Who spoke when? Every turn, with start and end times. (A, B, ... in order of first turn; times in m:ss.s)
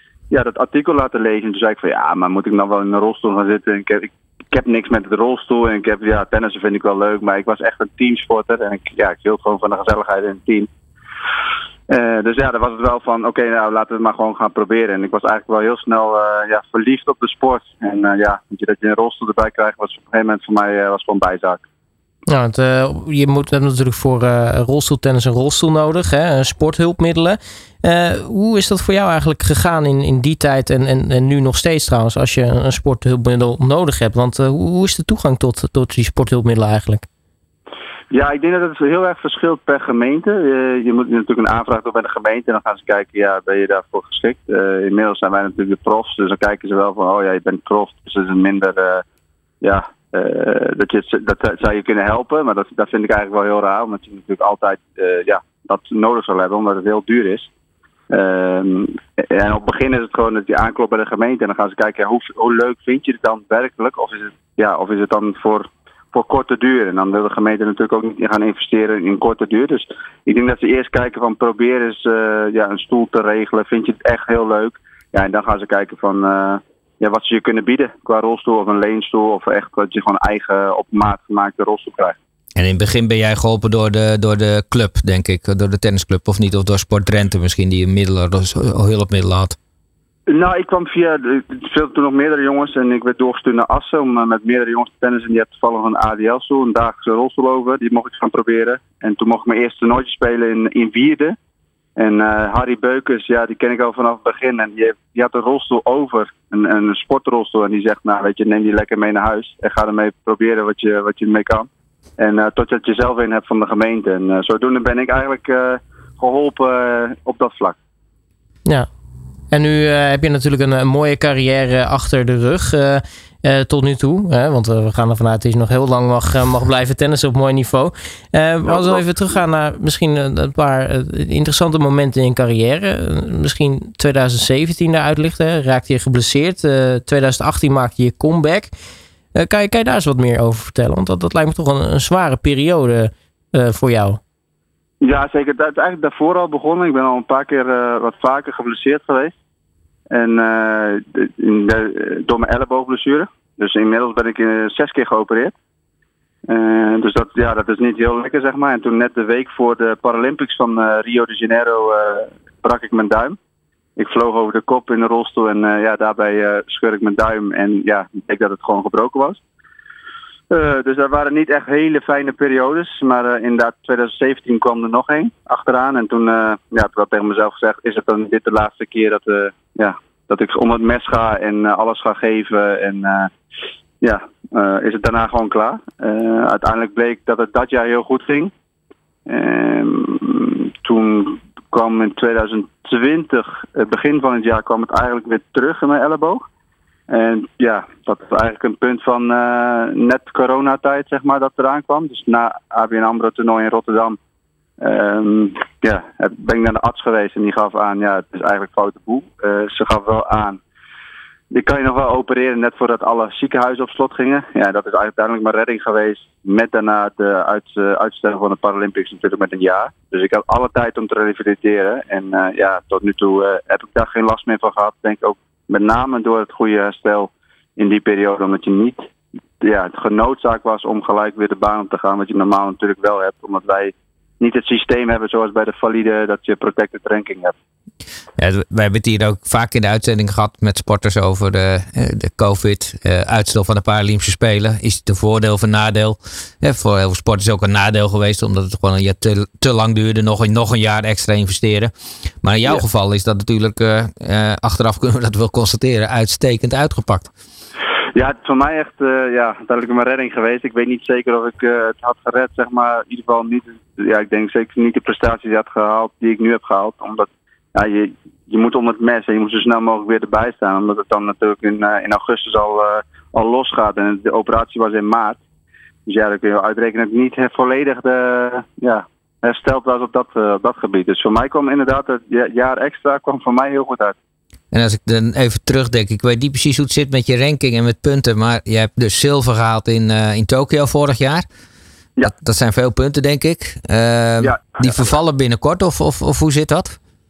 0:00.3-0:10.7 A
0:11.9-0:21.6 A
0:22.3-0:37.1 B
0:38.1-0:49.0 A
0:49.6-0:57.5 A
0:58.1-1:22.2 A
1:22.6-1:29.6 C
1:30.3-1:41.4 A
1:42.0-1:57.8 A
1:59.5-2:18.7 B
2:19.3-2:24.2 B
2:25.0-2:29.3 A
2:30.1-2:35.5 A
2:36.5-2:43.4 A
2:44.0-2:49.4 A
2:50.5-3:03.3 A
3:04.0-3:08.5 A
3:09.3-3:16.4 A
3:17.1-3:24.2 A
3:24.8-3:30.6 A
3:31.5-3:49.0 A
3:49.6-3:57.5 A
3:58.4-4:11.9 C
4:12.4-4:17.3 C
4:18.1-4:35.4 A
4:36.1-4:44.2 A
4:44.7-4:51.4 C
4:52.3-4:57.0 C
4:54.4-4:55.1 A